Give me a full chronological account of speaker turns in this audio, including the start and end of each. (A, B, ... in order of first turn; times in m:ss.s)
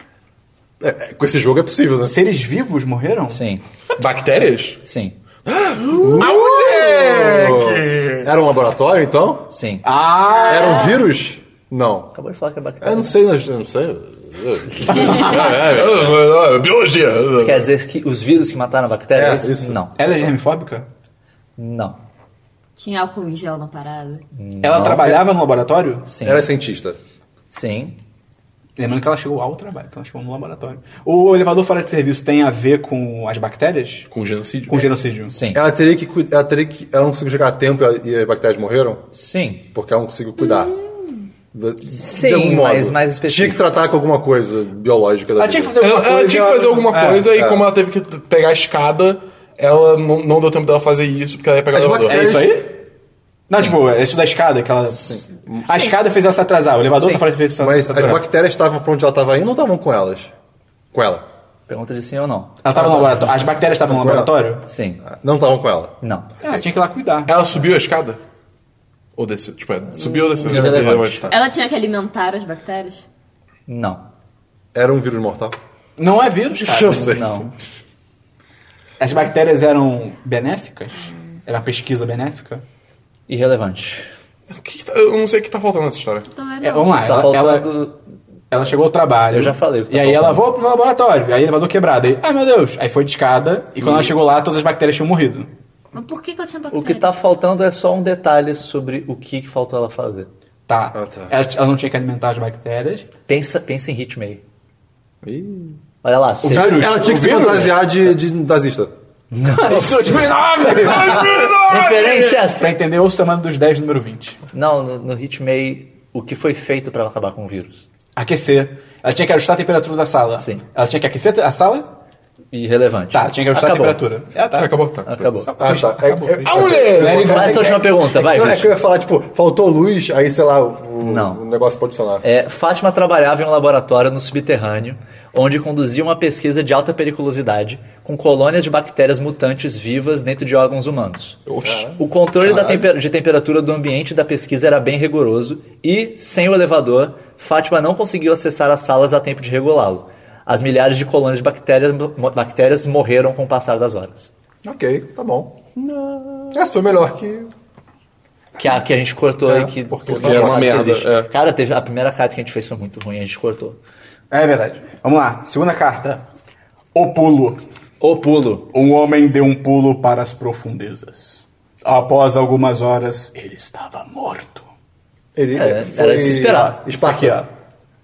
0:00.8-0:02.2 A
0:02.0-0:03.4 B
0:03.3-0:03.6 C
0:04.0-0:04.8 D
0:04.8-0:05.2 C
0:05.5-0:08.3 D
0:05.9-0:06.2 E
0:05.9-0:09.5 A
0:09.5-0:09.9 C
0:09.8-0:10.9 B
0:10.2-0:11.0 E
0:10.5-0:12.1 A
0:12.1-0:13.1 C
0:12.8-0:16.2 A
0:14.9-0:15.4 B
0:14.9-0:17.7 D
0:15.1-0:15.5 E
0:17.4-0:19.9 C
0:19.1-0:20.3 A
0:20.0-0:20.9 B
0:21.6-0:22.0 C
0:22.8-0:24.2 E
0:24.3-0:25.2 C
0:24.6-0:26.1 B
0:26.1-0:26.5 C
0:26.2-0:27.0 A
0:27.5-0:28.0 C
0:28.8-0:34.1 B
0:34.1-0:34.9 D
0:34.7-0:35.4 B
0:35.3-0:35.6 C
0:35.5-0:39.1 A
0:39.1-0:39.6 C
0:39.7-0:40.8 A
0:40.4-0:40.8 E
0:41.5-0:45.8 A
0:41.9-0:43.6 C
0:45.4-0:47.3 B
0:45.8-0:52.4 D
0:47.3-0:47.7 A
0:51.7-0:52.6 A
0:52.1-0:52.8 B
0:53.5-0:58.2 B
0:55.0-0:55.9 A
0:57.0-0:57.3 C
0:57.6-1:00.3 A
0:58.0-0:58.2 D
1:00.9-1:01.2 A
1:01.7-1:02.6 C
1:02.6-1:04.7 B
1:02.7-1:04.4 A
1:04.7-1:05.0 C
1:05.0-1:06.0 A
1:06.0-1:06.4 C
1:06.4-1:07.4 B
1:07.3-1:08.2 D
1:09.2-1:11.4 D
1:10.4-1:11.1 A
1:10.4-1:11.3 C
1:11.3-1:13.1 E
1:13.7-1:14.0 C
1:14.7-1:15.6 A
1:16.0-1:17.4 B
1:16.6-1:17.3 A
1:16.8-1:17.5 C
1:19.0-1:22.6 B
1:23.3-1:24.1 C
1:24.5-1:26.3 D
1:26.3-1:27.1 E
1:26.6-1:27.7 B
1:27.0-1:28.0 C
1:28.5-1:35.5 B
1:29.3-1:30.5 C
1:35.9-1:37.1 E
1:36.7-1:40.3 C
1:40.7-1:43.1 B
1:41.0-1:41.3 A
1:43.3-1:44.4 C
1:45.2-1:45.8 A
1:46.0-1:47.0 C
1:46.4-1:47.9 B
1:46.5-1:48.9 A
1:49.3-1:50.0 C
1:49.5-1:51.3 B
1:50.2-1:52.5 D
1:51.1-1:52.8 C
1:52.5-1:54.4 B
1:54.5-1:57.8 C
1:58.2-2:01.9 B
2:00.4-2:00.6 C
2:02.5-2:04.0 C
2:03.1-2:04.8 B
2:04.6-2:05.3 D
2:05.0-2:05.5 C
2:05.4-2:07.8 B
2:05.6-2:12.2 A
2:06.4-2:07.4 D
2:07.1-2:08.7 C
2:11.0-2:11.4 C
2:12.2-2:34.3 C
2:21.5-2:21.9 D
2:21.6-2:22.0 A
2:22.4-2:22.9 D
2:34.6-2:37.5 A
2:38.6-2:43.8 C
2:39.5-2:40.9 A
2:40.1-2:41.3 D
2:44.3-2:46.3 B
2:46.9-2:47.6 B
2:48.0-2:48.7 C
2:48.7-2:54.7 B
2:55.4-2:57.4 A
2:55.5-2:56.8 C
2:56.5-2:57.5 B